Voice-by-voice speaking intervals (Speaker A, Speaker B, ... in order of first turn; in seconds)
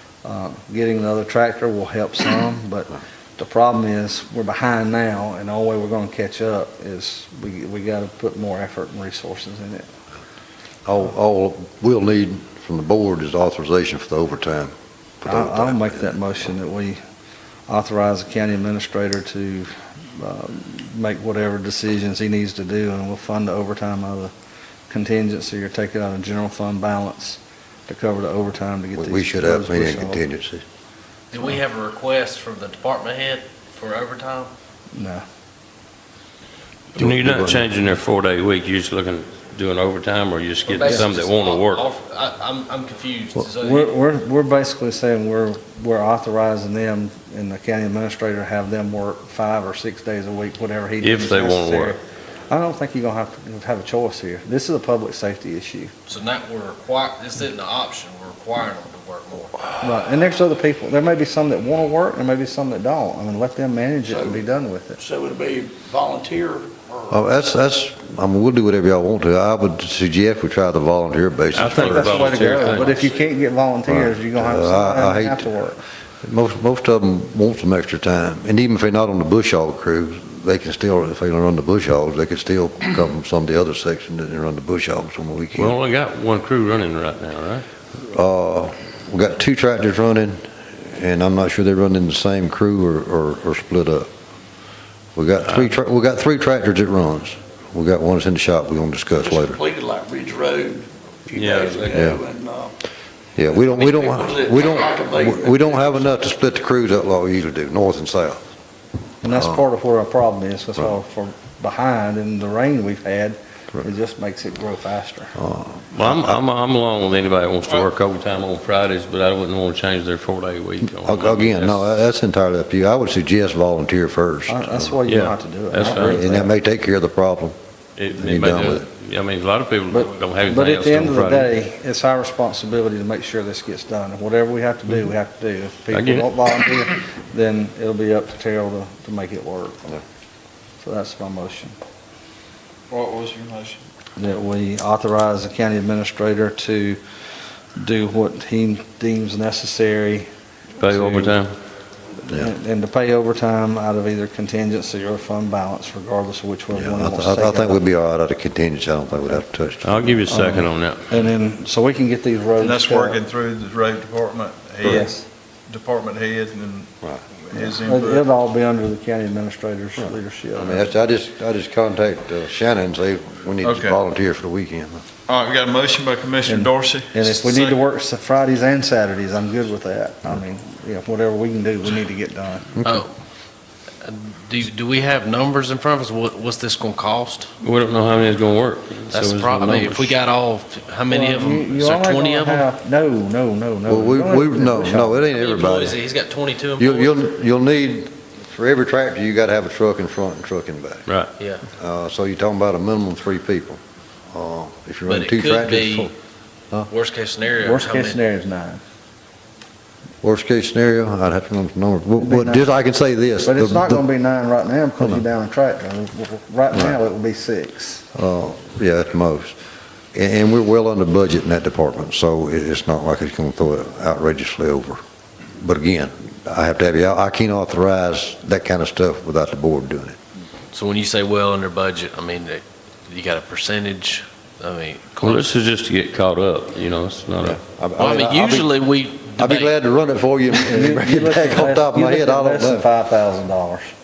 Speaker A: 0.2-9.9, 15.3-17.0, 17.7-24.3, 24.9-30.2, 34.9-35.2, 43.6-52.0, 52.5-55.9, 59.8-65.0, 71.6-75.8, 109.2-115.3, 124.5-126.5, 129.9-139.9, 140.8-141.8, 144.2-147.0, 147.8-150.3, 150.8-151.4, 152.2-157.8, 160.3-163.2, 164.8-165.2, 167.5-170.9, 176.5-182.7, 191.1-195.2, 207.6-208.8, 212.2-212.7, 213.4-218.1, 240.7-243.9
Speaker B: 10.9-16.1, 29.0-30.6, 37.0-37.7, 67.1-72.2, 73.9-75.5, 76.2-85.7, 88.0-94.1, 95.2-99.6, 101.9-102.2, 103.4-108.4, 109.3-109.6, 115.4-116.4, 120.9-125.0, 126.0-127.5, 128.1-128.9, 156.7-160.3, 170.0-175.0, 182.8-183.1, 193.9-196.0, 196.8-201.1, 201.7-203.8, 204.3-206.1, 210.2-214.0, 215.0-215.2, 218.1-219.6, 220.1-225.0, 225.6-230.2, 237.4-238.8, 239.4-242.9
Speaker C: 31.3-34.5, 40.7-44.0, 56.1-59.6, 182.8-183.1, 184.0-187.5, 189.1-192.7, 195.3-197.1, 201.4-201.6, 205.1-206.1, 206.9-208.2, 230.7-235.5, 238.0-239.8
Speaker D: 36.9-41.9, 51.0-52.0, 71.5-73.1, 85.5-87.7, 101.3-102.2, 116.0-121.9, 125.1-126.2, 128.0-131.5, 135.9-136.3, 150.8-151.5, 159.8-161.0, 187.6-190.2, 235.2-237.6
Speaker E: 64.1-64.4, 65.0-67.2, 99.2-102.8, 103.5-106.3
Speaker F: 142.9-143.8, 162.6-165.2, 165.7-168.3, 173.6-174.0, 175.3-177.8